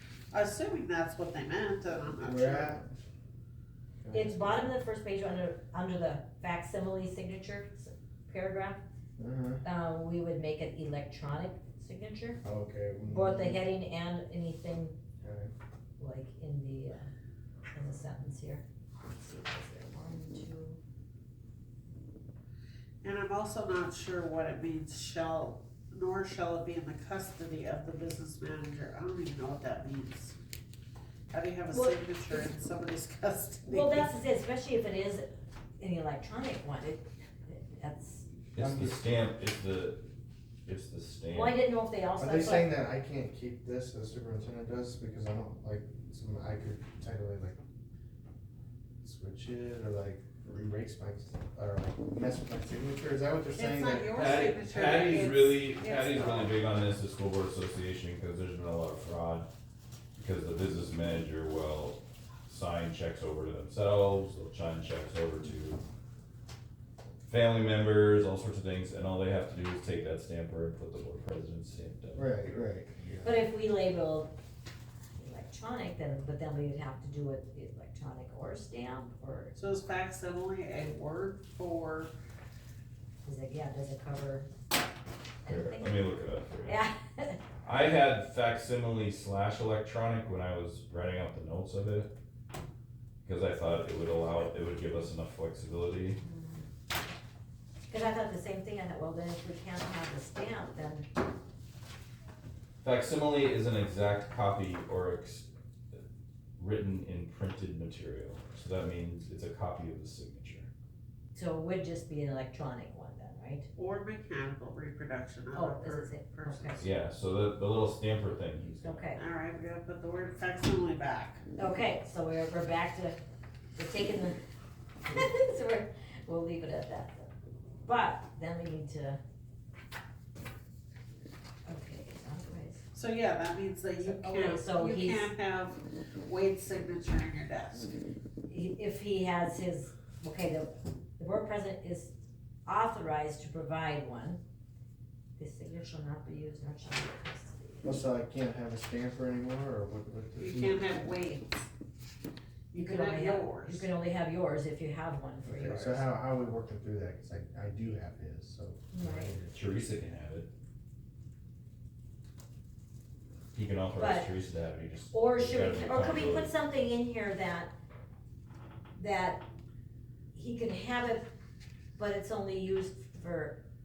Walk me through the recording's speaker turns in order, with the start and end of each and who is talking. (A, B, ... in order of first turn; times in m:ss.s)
0:00.3-0:02.8 A
0:02.2-0:02.9 B
0:04.0-0:04.6 B
0:04.1-0:08.8 C
0:09.2-0:09.6 B
0:09.6-0:12.4 C
0:12.4-0:13.6 B
0:13.1-0:15.0 C
0:15.2-0:15.5 B
0:16.0-0:17.1 C
0:17.7-0:20.8 C
0:23.0-0:30.4 A
0:31.3-0:34.1 A
0:31.7-0:32.5 C
0:33.7-0:38.3 C
0:38.5-0:40.0 D
0:38.6-0:39.0 B
0:40.7-0:41.6 D
0:41.3-0:42.7 C
0:42.2-0:47.6 B
0:49.0-0:54.2 B
0:53.5-0:56.6 A
0:54.1-0:59.5 D
1:00.2-1:05.8 D
1:07.2-1:12.3 D
1:12.1-1:13.4 B
1:13.2-1:14.3 C
1:15.2-1:19.5 C
1:19.6-1:22.1 A
1:23.2-1:24.5 C
1:25.4-1:26.1 C
1:25.4-1:26.8 D
1:26.6-1:27.4 C
1:27.6-1:32.1 D
1:33.2-1:36.2 D
1:36.2-1:36.7 C
1:37.9-1:41.1 C
1:42.8-1:46.0 D
1:46.6-1:50.7 D
1:51.3-1:53.7 C
1:53.8-1:56.9 A
1:55.5-1:56.8 C
1:56.8-1:59.2 D
1:58.8-1:59.2 C
1:59.2-2:01.4 A
2:01.6-2:03.2 C
2:03.8-2:04.4 C
2:05.0-2:07.3 C
2:07.8-2:09.2 C
2:11.7-2:12.8 C
2:12.9-2:18.0 A
2:14.0-2:15.3 C
2:18.5-2:22.2 C
2:22.7-2:24.4 C
2:25.4-2:28.0 C
2:27.8-2:31.1 B
2:30.4-2:31.6 A
2:32.7-2:33.9 A
2:32.8-2:36.0 C
2:35.4-2:39.5 B
2:38.9-2:39.4 C
2:39.5-2:40.5 D
2:43.5-2:46.5 D
2:44.0-2:44.3 C
2:45.1-2:47.7 C
2:49.0-2:49.4 C
2:50.3-2:51.3 C
2:52.0-2:53.6 C